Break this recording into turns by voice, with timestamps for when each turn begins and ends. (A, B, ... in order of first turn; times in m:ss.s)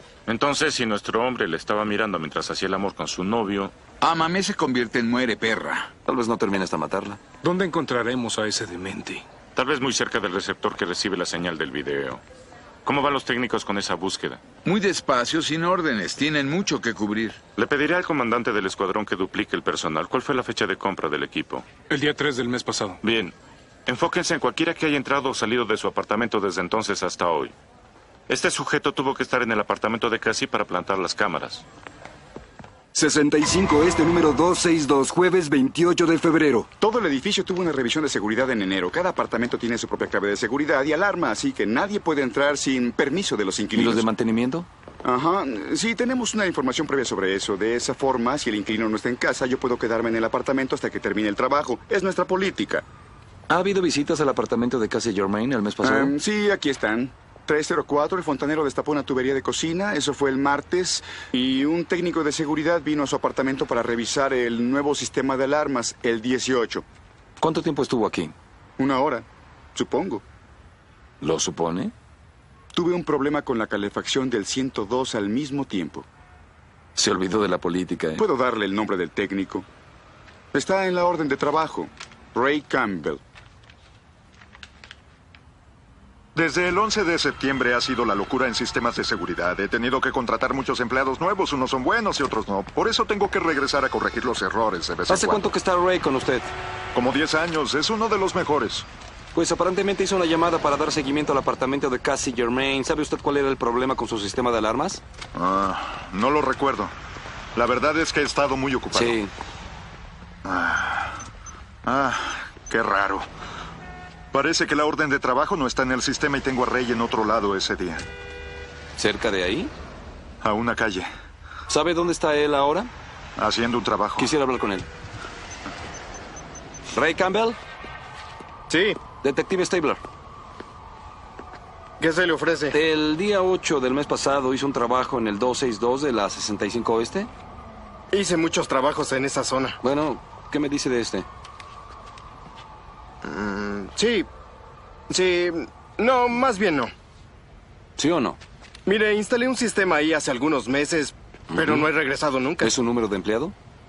0:00.3-0:03.7 A
0:04.0-0:05.9 B
0:06.0-0:07.2 C
0:07.4-0:09.2 D
0:09.5-0:12.2 A
0:12.8-0:14.4 A
0:14.6-0:17.4 B
0:17.6-0:21.6 A
0:21.9-0:23.0 D
0:23.0-0:23.3 A
0:23.8-0:27.5 A
0:28.3-0:31.6 A
0:32.9-0:36.7 E
0:36.8-0:44.1 F
0:43.7-0:44.7 C
0:45.0-0:52.8 F
0:53.5-0:56.1 C
0:55.8-1:06.8 F
1:07.4-1:08.3 C
1:08.8-1:10.2 F
1:11.2-1:11.9 C
1:12.7-1:16.0 F
1:17.0-1:18.2 C
1:18.2-1:19.6 F
1:20.5-1:23.2 F
1:26.3-1:35.4 G
1:35.1-1:36.5 C
1:36.9-1:38.8 G
1:39.3-1:45.0 C
1:45.3-1:46.9 G
1:47.5-1:49.2 G
1:48.9-1:49.3 C
1:50.4-1:51.2 G
1:51.8-1:53.3 G
1:54.3-1:58.0 G
1:59.0-1:59.7 C
2:00.4-2:01.1 G
2:01.7-2:02.9 C
2:03.4-2:04.3 G
2:04.2-2:04.9 C
2:06.9-2:07.6 C
2:08.7-2:09.0 H
2:09.2-2:10.0 C
2:12.0-2:12.8 H
2:12.7-2:17.3 C
2:18.1-2:19.8 H
2:19.8-2:21.3 C
2:23.2-2:24.3 H
2:25.1-2:26.9 H
2:28.0-2:28.4 C
2:28.8-2:32.7 H
2:31.5-2:31.9 C
2:32.6-2:33.5 C